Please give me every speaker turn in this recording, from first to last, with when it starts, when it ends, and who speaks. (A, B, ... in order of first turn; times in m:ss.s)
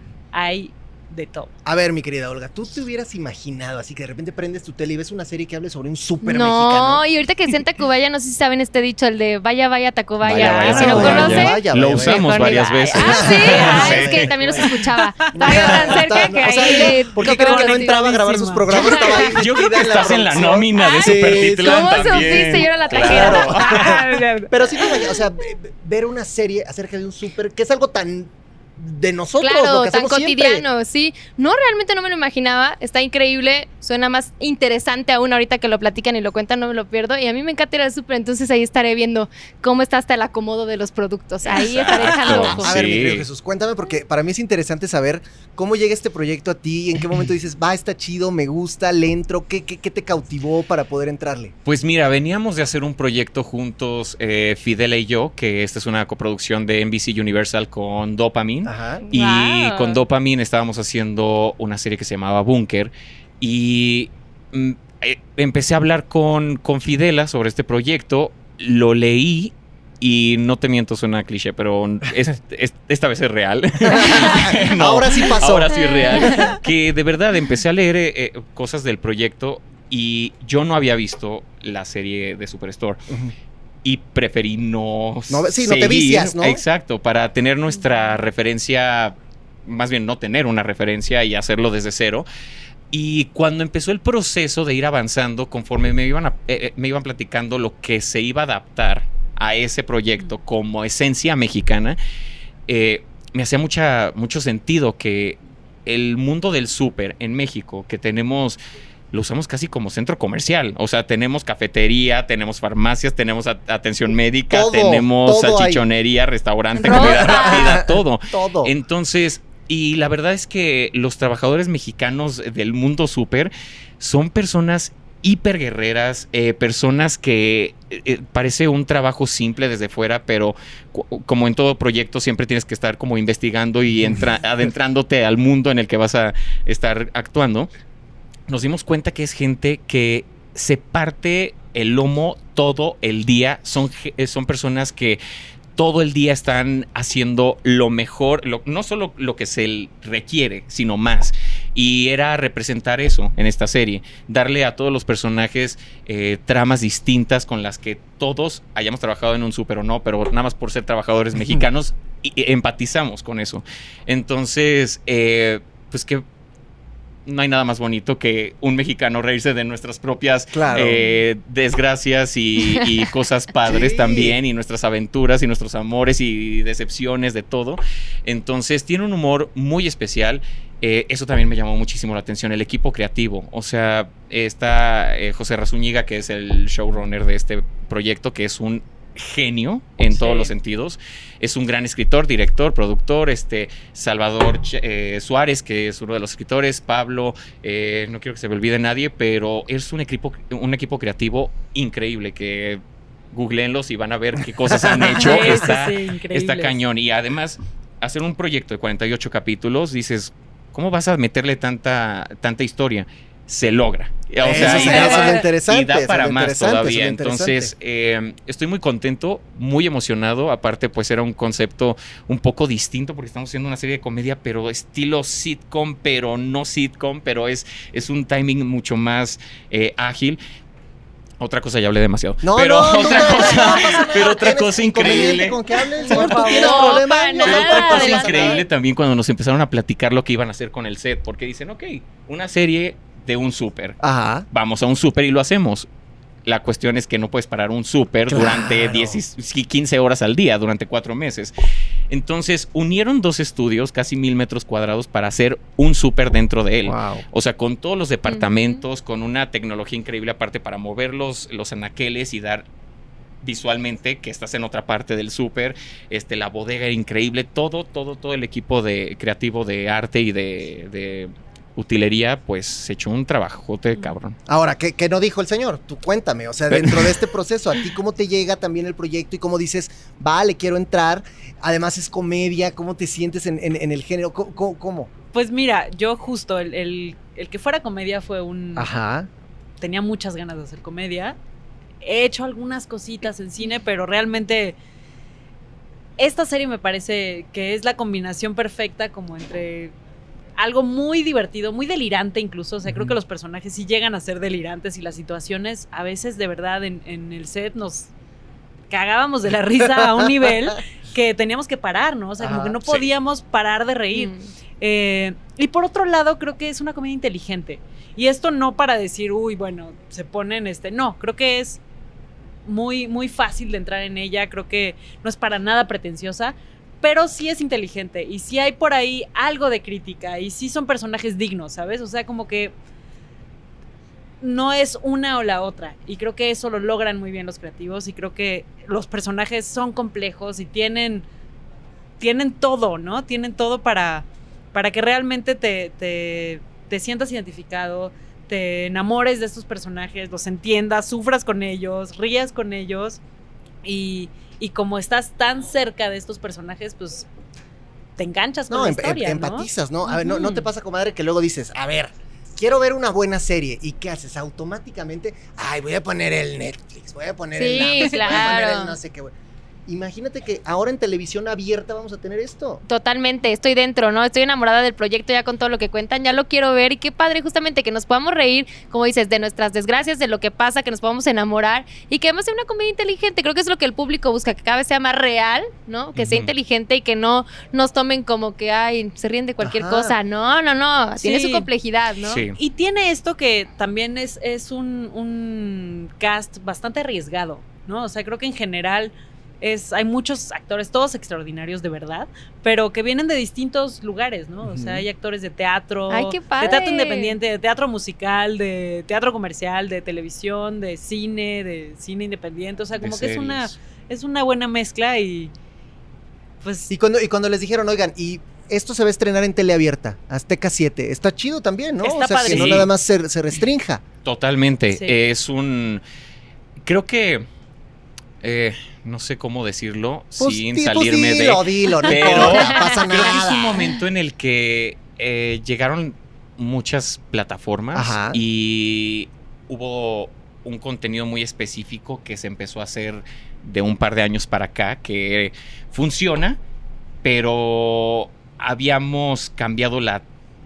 0:00.3-0:01.5 A
0:01.6-0:07.0 B
0:06.2-0:19.3 C
0:10.2-0:14.4 D
0:10.3-0:12.2 B
0:11.0-0:11.2 A
0:12.9-0:14.7 B
0:13.4-0:13.9 A
0:14.6-0:18.0 A
0:15.3-0:30.7 B
0:18.7-0:19.5 A
0:19.2-0:23.9 D
0:20.8-0:24.9 C
0:23.8-0:24.2 A
0:29.4-0:42.8 C
0:41.5-0:43.3 D
0:42.0-0:42.5 A
0:42.6-0:51.5 B
0:51.7-1:23.0 D
0:58.7-0:59.0 B
0:59.1-1:00.0 C
1:13.8-1:16.6 B
1:15.8-1:16.5 C
1:23.1-1:23.3 B
1:23.8-1:32.3 D
1:25.3-1:26.6 B
1:32.9-1:42.0 D
1:42.7-1:48.6 D
1:49.1-2:17.7 D
1:54.5-1:55.8 B
1:56.8-1:57.6 C
1:56.8-1:58.7 B
2:18.5-2:25.2 D
2:25.8-2:46.2 D
2:47.3-3:22.8 D
2:50.5-2:51.1 B
2:53.7-2:54.4 B
3:10.1-3:10.5 A
3:23.3-3:50.4 D
3:24.7-3:25.6 B
3:25.1-3:26.8 A
3:34.4-3:37.7 B
3:34.5-3:35.4 A
3:51.4-3:56.4 D
3:52.4-3:58.6 B
3:56.0-3:58.4 A
3:56.2-3:58.6 C
3:57.5-4:04.0 D
4:04.0-4:04.5 B
4:04.5-4:05.9 D
4:06.4-4:11.5 D
4:08.3-4:09.2 B
4:12.1-4:22.7 D
4:16.8-4:17.2 B
4:18.3-4:18.8 C
4:23.4-4:34.4 D
4:34.5-4:45.1 B
4:36.7-4:37.1 D
4:45.3-4:48.9 A
4:48.8-4:49.3 B
4:49.8-4:51.4 A
4:52.0-4:54.8 A
4:56.2-4:59.9 A
5:00.6-5:08.1 A
5:08.9-5:21.8 A
5:12.4-5:12.8 B
5:12.8-5:13.1 D
5:14.1-5:14.5 C
5:22.6-5:32.8 A
5:34.4-5:41.3 A
5:42.2-5:53.2 A
5:53.8-5:57.3 A
5:58.2-5:59.7 A
5:58.7-6:09.3 B
6:00.2-6:00.5 A
6:07.6-6:09.0 C
6:07.8-6:08.5 A
6:09.9-6:12.8 B
6:12.9-6:32.4 C
6:26.2-6:26.5 D
6:29.6-6:30.2 B
6:31.2-6:31.7 A
6:32.2-6:32.6 D
6:32.6-6:55.5 A
6:44.8-6:45.0 D
6:46.1-6:47.4 C
6:53.0-6:53.8 D
6:56.6-6:56.9 A
6:56.9-7:04.0 B
7:02.0-7:02.9 A
7:02.5-7:02.9 D
7:04.2-7:06.0 D
7:06.8-7:07.5 D
7:08.4-7:26.6 D
7:10.4-7:13.8 B
7:17.9-7:18.4 B
7:27.2-7:30.2 D